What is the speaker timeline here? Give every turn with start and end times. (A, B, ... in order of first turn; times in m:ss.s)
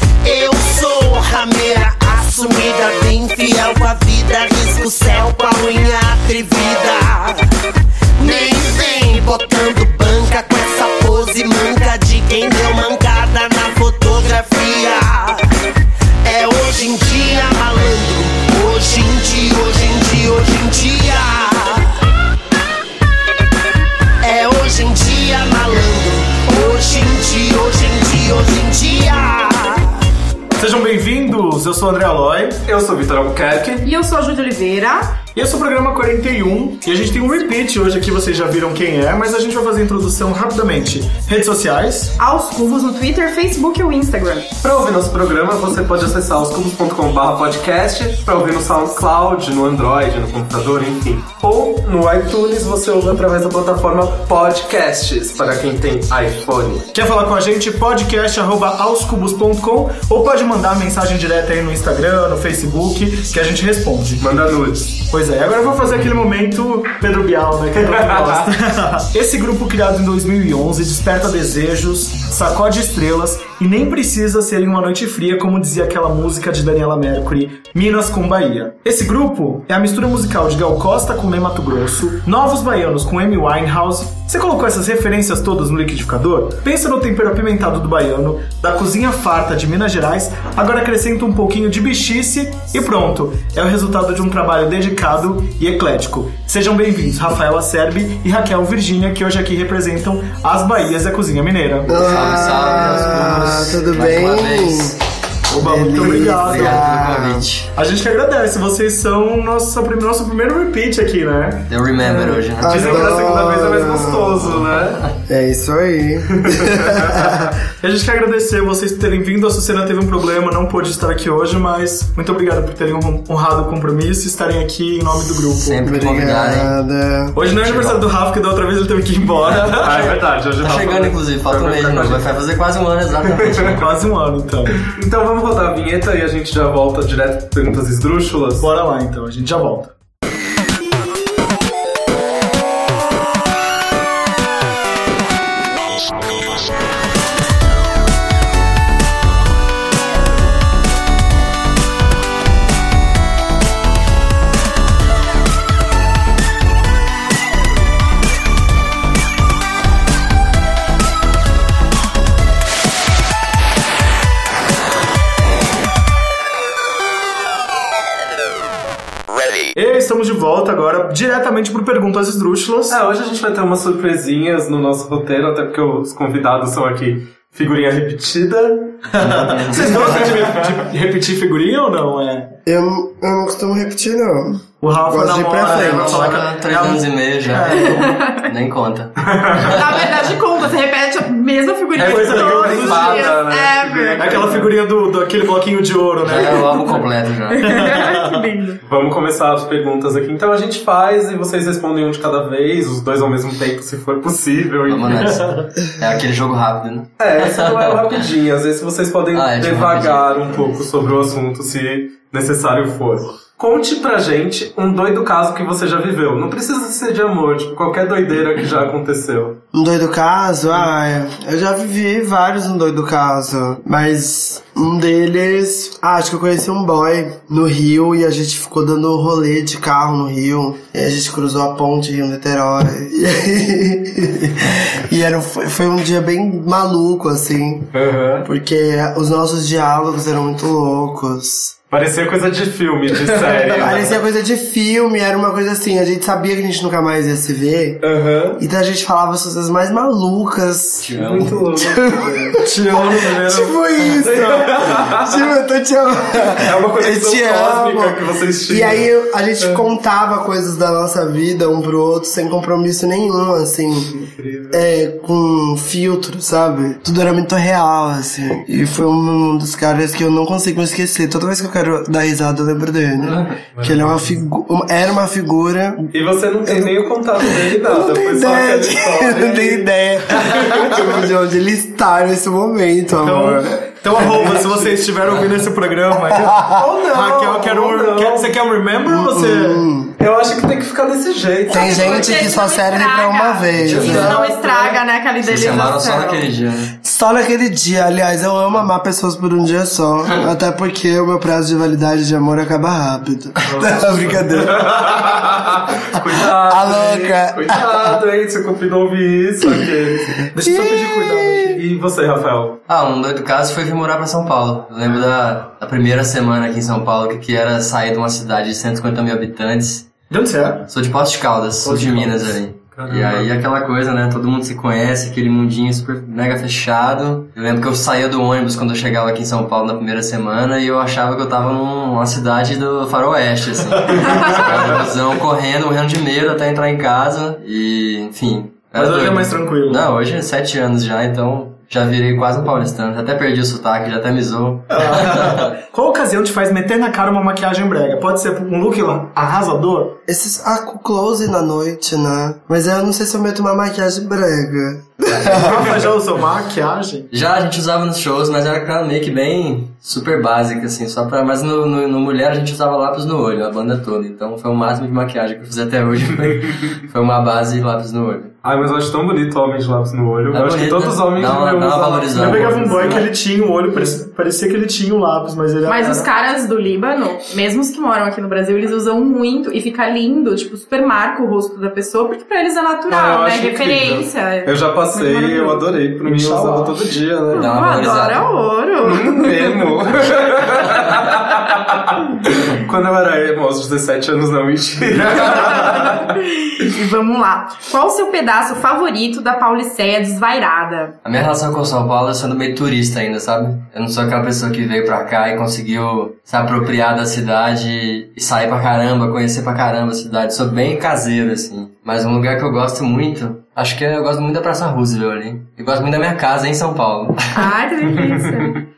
0:00.2-0:07.5 A
0:08.2-0:15.5 A
0:16.2-0:21.9 A
0:24.2-0:29.9 A
0:30.6-0:32.6 B
0:32.6-0:33.8 C
0:33.8-0:35.2 D
0:35.4-0:42.2 B
0:42.2-0:44.5 D
0:44.6-0:56.9 C
0:56.9-1:04.2 B
1:04.2-1:05.0 C
1:05.1-1:42.1 B
1:07.8-1:08.5 C
1:41.9-1:45.0 E
1:41.9-1:45.0 F
1:45.5-1:47.0 B
1:45.6-1:47.5 E
1:46.4-1:47.7 F
1:47.8-1:51.7 B
1:51.7-1:53.2 F
1:52.1-1:54.4 E
1:52.6-1:55.0 C
1:54.5-1:55.1 F
1:55.3-1:57.5 E
1:56.5-1:57.2 C
1:57.8-2:05.9 B
2:05.4-2:06.8 F
2:05.8-2:07.4 E
2:07.4-2:10.1 B
2:07.4-2:08.1 F
2:09.6-2:12.4 C
2:10.6-2:13.9 F
2:13.3-2:13.8 C
2:13.8-2:14.9 B
2:14.8-2:18.7 C
2:18.6-2:19.9 B
2:49.8-2:53.0 B
2:52.9-2:59.0 C
2:59.1-3:02.6 B
2:59.4-3:00.0 F
2:59.8-3:00.7 C
3:02.7-3:06.3 E
3:04.8-3:08.0 B
3:05.6-3:10.0 F
3:07.7-3:08.5 D
3:09.3-3:09.7 C
3:09.6-3:14.2 D
3:12.0-3:14.8 C
3:12.0-3:13.4 B
3:14.2-3:17.1 B
3:16.2-3:17.8 F
3:17.5-3:18.8 D
3:17.6-3:18.4 B
3:18.8-3:25.4 C
3:24.9-3:28.1 F
3:25.2-3:25.7 B
3:27.2-3:39.6 C
3:29.3-3:30.6 F
3:39.7-4:01.8 E
3:57.9-3:58.5 C
4:01.9-4:04.1 C
4:03.5-4:03.8 B
4:03.8-4:36.1 E
4:08.0-4:08.6 C
4:11.0-4:11.7 F
4:11.2-4:12.6 C
4:12.5-4:13.8 B
4:14.1-4:15.4 C
4:16.6-4:19.1 C
4:24.2-4:24.8 C
4:33.2-4:33.5 F
4:33.7-4:34.3 C
4:36.1-4:41.3 C
4:36.6-4:44.5 E
4:43.2-4:49.8 B
4:46.4-4:46.6 E
4:46.8-4:48.5 C
4:49.1-4:50.2 E
4:50.2-4:52.5 C
4:51.7-4:54.4 E
4:51.7-4:56.5 D
4:53.8-4:54.4 F
4:54.0-4:54.9 B
4:54.2-4:54.4 C
4:55.4-4:57.0 F
4:57.0-5:05.3 E
5:03.7-5:10.4 C
5:06.4-5:08.0 E
5:10.5-5:11.8 B
5:10.6-5:11.8 E
5:11.8-5:12.8 C
5:12.9-5:20.1 F
5:20.3-5:20.9 B
5:20.9-5:45.7 F
5:21.8-5:22.6 B
5:22.9-5:23.5 C
5:39.0-5:40.1 B
5:44.9-5:50.2 B
5:50.3-5:56.0 E
5:55.3-5:55.7 F
5:55.5-5:57.3 B
5:57.3-6:08.5 F
6:08.6-6:13.2 C
6:10.5-6:13.3 F
6:12.3-6:16.3 B
6:15.8-6:26.0 D
6:23.1-6:27.7 C
6:26.2-6:27.2 B
6:27.5-6:28.5 F
6:27.5-6:29.9 D
6:29.0-6:36.3 C
6:35.4-6:41.2 D
6:41.2-6:57.7 F
6:57.5-6:58.8 D